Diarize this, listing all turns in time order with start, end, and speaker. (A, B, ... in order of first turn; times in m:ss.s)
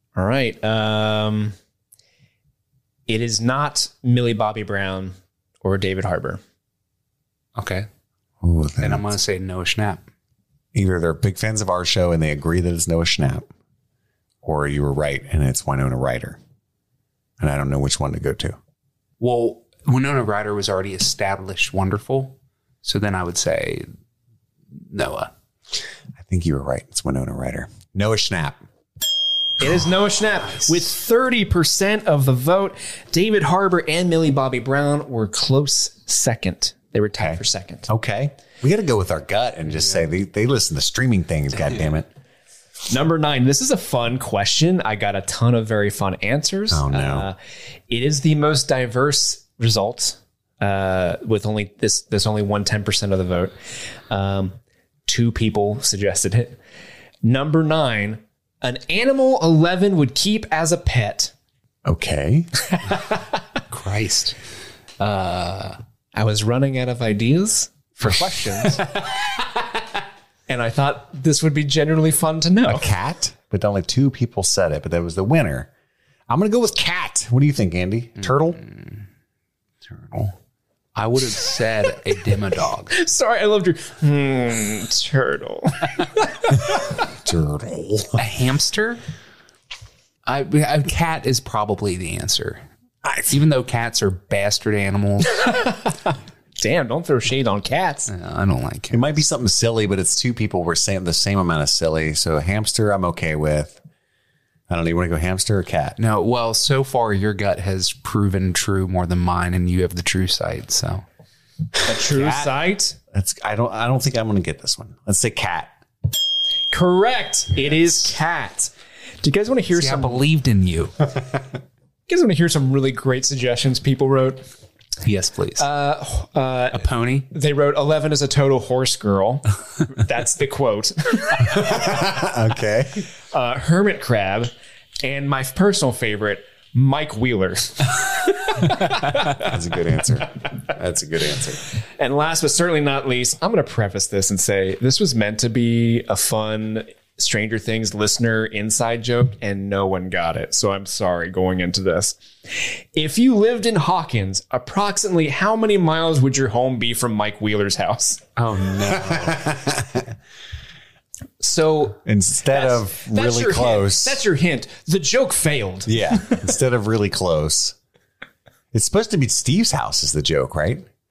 0:00.2-0:01.5 A
0:03.1-0:06.4 A
0:07.6-0:07.9 B
0:08.4-0:09.1 C
0:08.8-0:10.0 B
0:10.7-0:13.5 C
0:14.4-0:16.4 C
0:17.4-0:18.6 C
0:19.2-0:23.9 B
0:24.9-0:25.3 B
0:26.2-0:28.6 C
0:29.6-0:37.9 A
0:37.2-0:42.1 C
0:42.9-0:47.4 A
0:46.7-0:47.3 C
0:47.9-0:53.5 A
0:54.1-0:54.5 A
0:55.1-0:56.6 A
0:57.2-1:01.3 A
1:01.8-1:02.5 C
1:03.7-1:04.4 B
1:05.0-1:05.8 B
1:06.1-1:08.9 A
1:10.5-1:12.9 A
1:12.6-1:15.7 C
1:16.3-1:18.6 C
1:18.6-1:18.9 B
1:20.9-1:22.9 B
1:22.9-1:26.5 A
1:27.2-1:28.2 C
1:28.2-1:29.0 B
1:30.2-1:32.6 B
1:33.0-1:33.3 C
1:33.3-1:35.4 B
1:35.4-1:35.7 A
1:36.6-1:38.1 A
1:38.1-1:39.2 B
1:38.9-1:43.8 C
1:44.7-1:46.0 C
1:46.0-1:51.0 B
1:51.8-1:53.0 A
1:52.1-1:52.5 B
1:53.1-1:55.7 C
1:56.7-1:58.7 A
1:59.2-2:00.2 A
1:59.7-2:00.9 B
2:02.1-2:04.4 A
2:05.0-2:05.6 B
2:05.6-2:11.4 A
2:06.7-2:07.3 B
2:11.4-2:13.1 C
2:13.3-2:14.5 A
2:15.0-2:19.5 A
2:19.3-2:21.6 C
2:22.0-2:38.2 A
2:38.4-2:39.3 B
2:38.4-2:40.1 C
2:41.4-2:46.4 A
2:42.0-2:44.2 C
2:45.8-2:47.7 C
2:48.7-2:50.8 C